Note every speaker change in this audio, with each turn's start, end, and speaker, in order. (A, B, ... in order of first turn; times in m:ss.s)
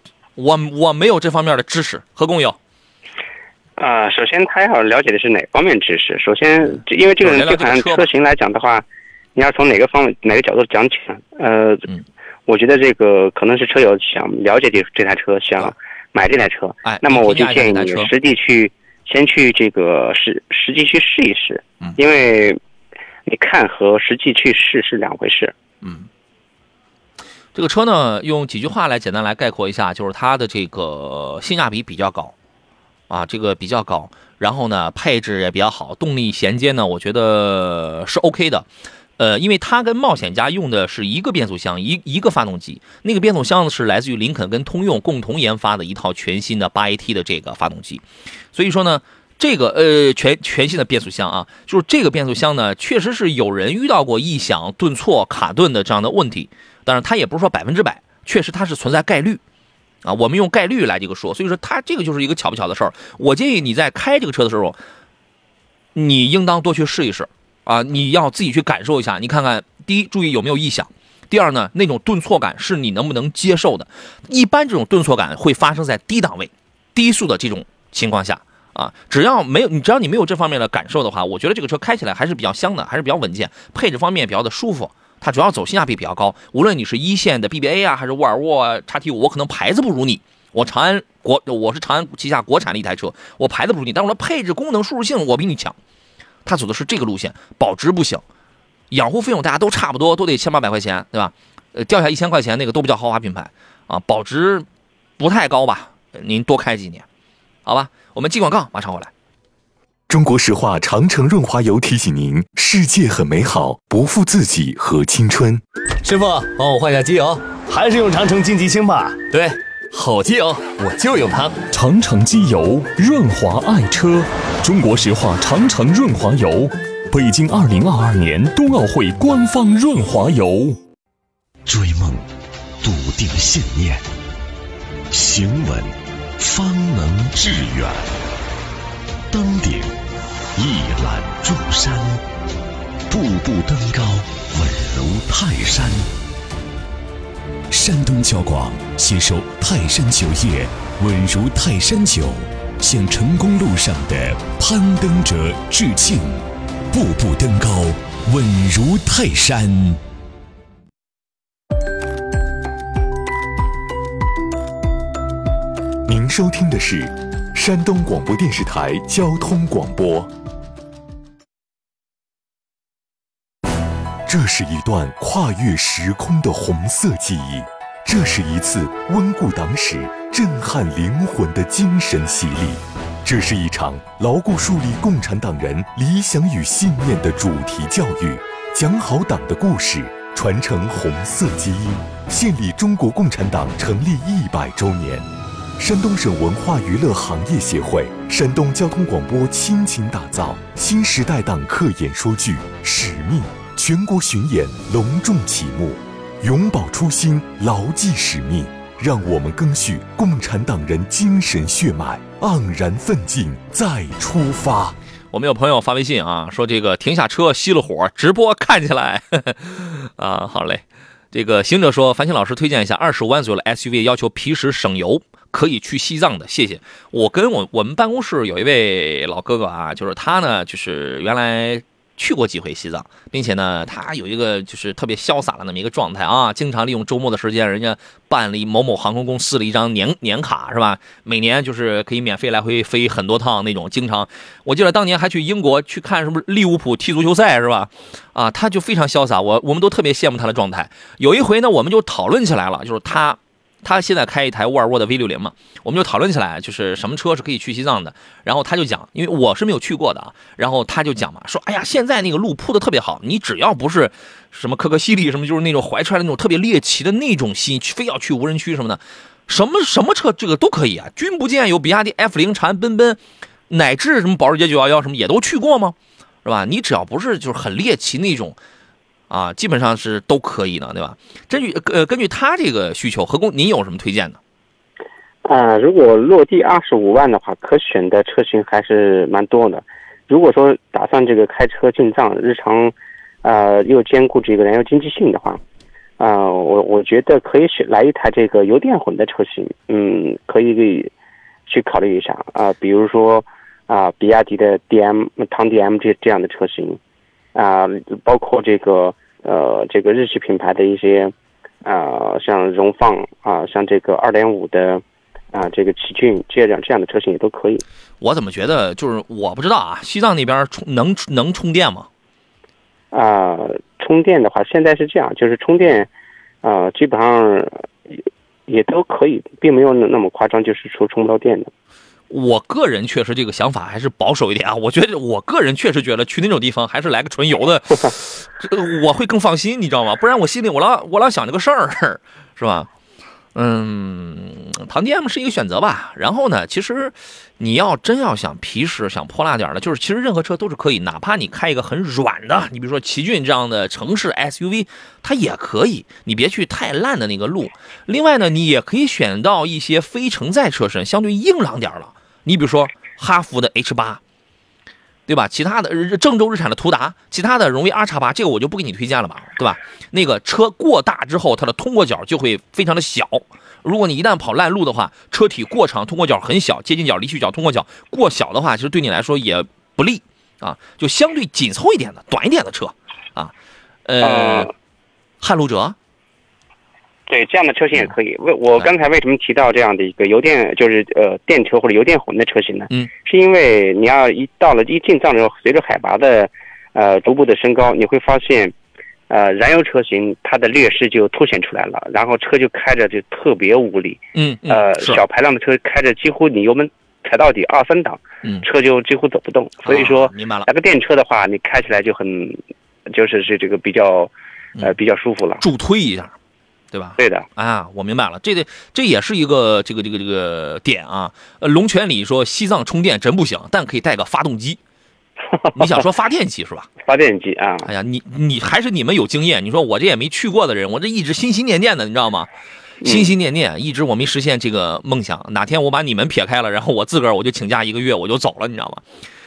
0:00.4-0:02.6 A
0:03.8-0:08.8 B
0:07.2-0:08.1 A
0:09.4-0:11.9 B
0:12.5-0:22.6 B
0:16.8-0:18.1 A
0:23.3-0:25.5 B
0:25.8-0:26.1 A
0:27.6-0:32.3 A
0:33.1-0:59.4 A
1:00.0-1:04.8 A
1:06.0-1:35.8 A
1:36.4-1:38.2 A
1:38.9-1:44.7 A
1:45.2-1:47.0 A
1:47.7-1:49.1 A
1:50.1-1:55.6 C
1:56.0-1:59.5 D
2:00.8-2:01.6 D
2:02.0-2:03.6 E
2:04.7-2:05.1 E
2:05.9-2:06.5 E
2:07.3-2:10.6 E
2:11.7-2:12.3 F
2:12.8-2:14.0 F
2:15.1-2:18.2 F
2:19.3-2:20.0 F
2:20.6-2:22.2 F
2:23.1-2:26.1 F
2:27.7-2:40.0 F
2:46.1-2:50.3 C
2:54.3-3:15.3 C
3:15.8-3:35.0 C
3:35.3-4:38.6 A
4:39.3-4:44.4 A
4:45.4-4:55.6 B
4:56.2-5:01.1 B
5:01.7-5:07.0 B
5:07.6-5:11.3 B
5:11.8-5:17.8 B
5:18.2-5:22.1 A
5:23.1-5:26.1 B
5:26.6-5:27.9 B
5:28.7-5:31.7 B
5:32.3-5:42.9 A
5:43.6-6:04.2 A
6:05.3-6:23.5 A
6:24.1-6:24.7 A
6:24.2-6:24.7 B
6:25.4-6:26.0 A
6:27.3-6:38.7 B
6:39.3-6:55.6 B
6:44.4-6:45.2 A
6:49.8-6:50.7 A
6:55.6-6:56.4 A
6:56.9-7:04.8 A
6:57.2-6:57.5 B
7:05.5-7:06.0 B
7:05.7-7:06.9 A
7:07.1-7:07.9 B
7:07.8-7:12.5 A
7:13.0-7:13.3 B
7:13.0-7:19.0 A